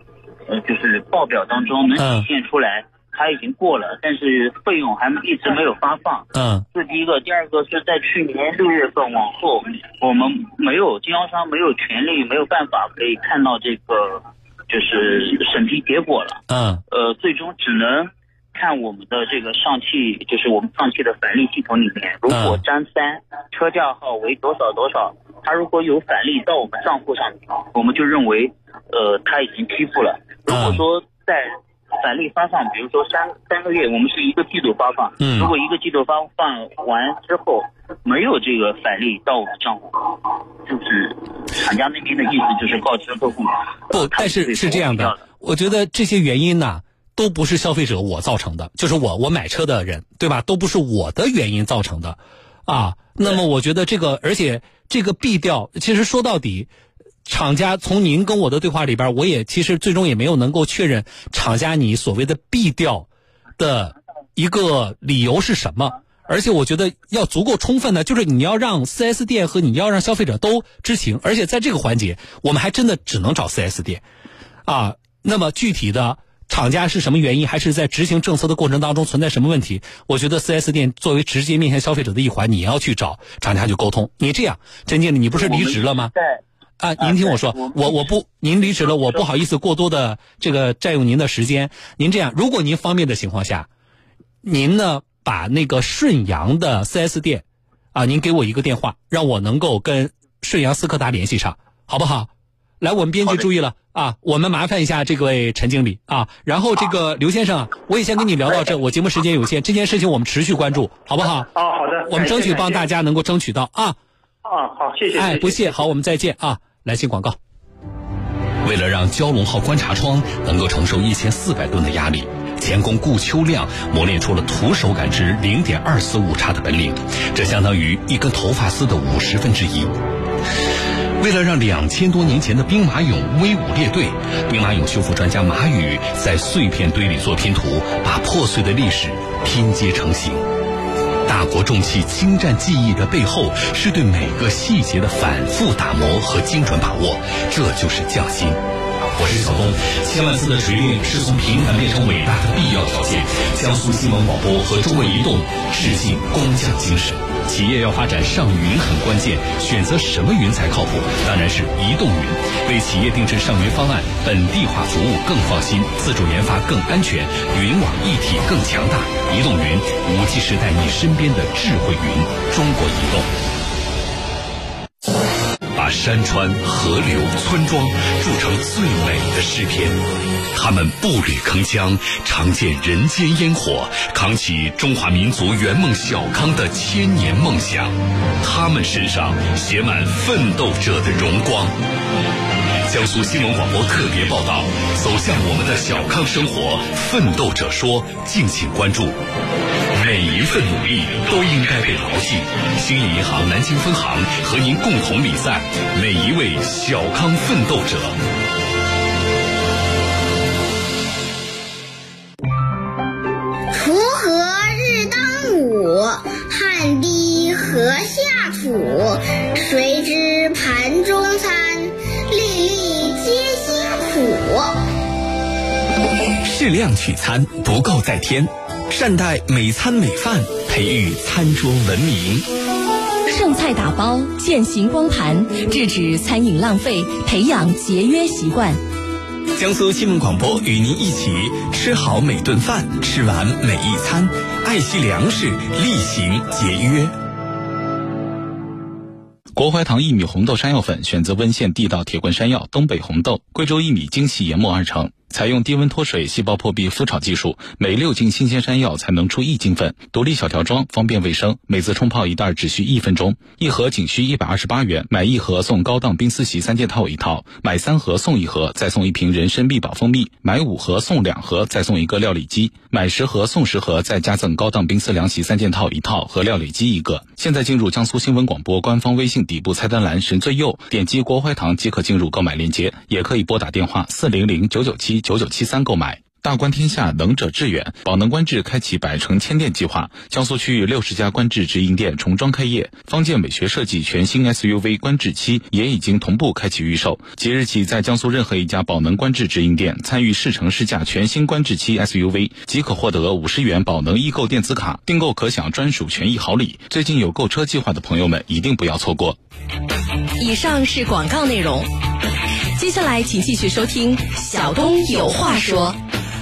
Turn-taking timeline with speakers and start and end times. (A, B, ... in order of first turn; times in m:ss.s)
0:00.5-0:16.4 A
0:02.0-0:02.3 B
0:06.3-0:06.6 B
0:16.5-0:16.8 B
0:16.9-0:45.2 A
0:22.3-0:22.6 B
0:30.5-0:30.8 B
0:35.2-0:35.5 B
0:43.9-0:56.7 B
0:57.2-1:14.0 B
1:14.6-1:26.1 B
1:25.3-1:26.4 A
1:26.8-1:33.7 B
1:27.0-1:29.3 A
1:34.4-1:37.4 B
1:37.9-1:42.3 B
1:42.8-1:51.5 B
1:51.4-1:52.9 C
1:52.0-1:54.0 B
1:54.4-1:55.7 C
1:55.1-1:57.4 B
1:58.6-2:09.9 B
2:11.2-2:20.4 B
2:21.3-2:28.6 B
2:29.1-2:53.3 B
2:55.7-3:00.0 B
3:00.5-3:11.7 B
3:12.8-3:19.2 B
3:19.9-3:28.1 B
3:33.7-3:44.7 D
3:46.5-3:52.4 E
3:53.3-3:58.8 F
3:59.6-4:07.1 E
4:09.6-5:09.4 G
5:10.4-5:11.9 F
5:12.8-5:16.0 F